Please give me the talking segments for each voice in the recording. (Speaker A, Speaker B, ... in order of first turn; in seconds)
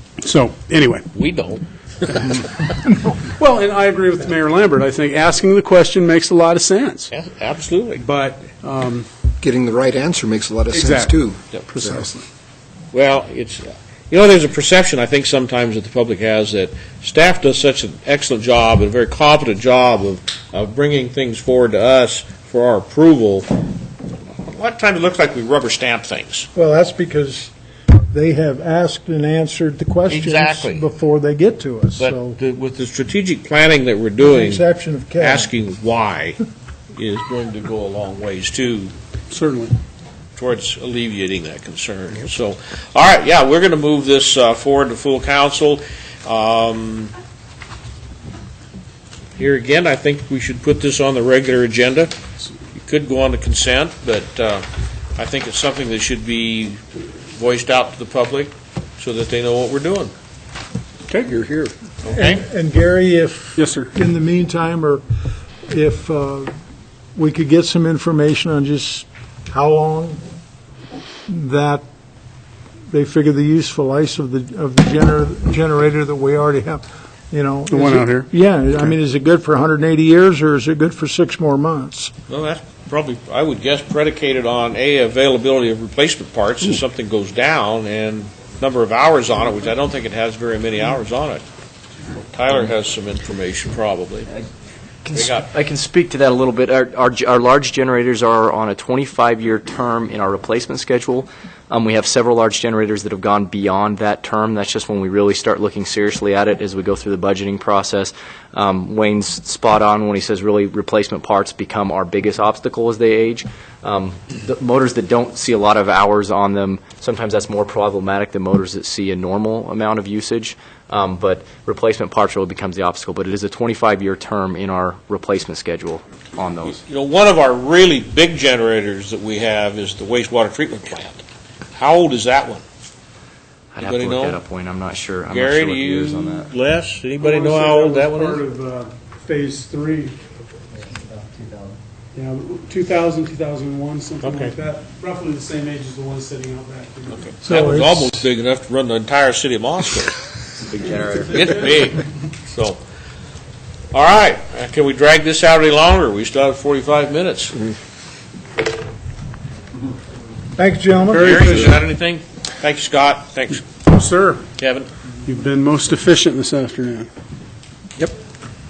Speaker A: 0.2-1.1, 3.2-7.1, 8.0-9.1, 10.7-12.2, 39.3-39.7, 61.1-61.7, 63.6-63.9, 77.7-78.3, 137.2-140.2, 142.2-147.3, 161.1-161.8, 163.8-164.4, 165.2-167.1
Speaker B: 1.1-2.4, 7.1-8.0, 12.9-23.6, 24.4-26.5, 30.1-30.9, 32.0-34.6, 35.2-36.4, 36.9-38.9, 40.4-47.1, 49.4-52.1, 52.8-60.1, 62.0-62.4, 82.3-91.4, 92.3-94.3, 95.1-95.5, 126.7-132.6, 133.8-134.4, 135.3-138.4, 144.2-144.5, 147.1-150.2, 151.3-152.8, 153.9-157.7, 161.2-163.7, 164.6-164.9
Speaker C: 9.4-12.1
Speaker D: 26.6-27.5, 28.1-32.4, 34.2-35.5, 62.1-65.0, 65.7-66.5, 67.2-70.2, 71.3-71.8, 72.9-82.1, 147.4-148.3, 160.6-161.8
Speaker E: 95.0-126.8, 133.7-136.5, 150.7-151.6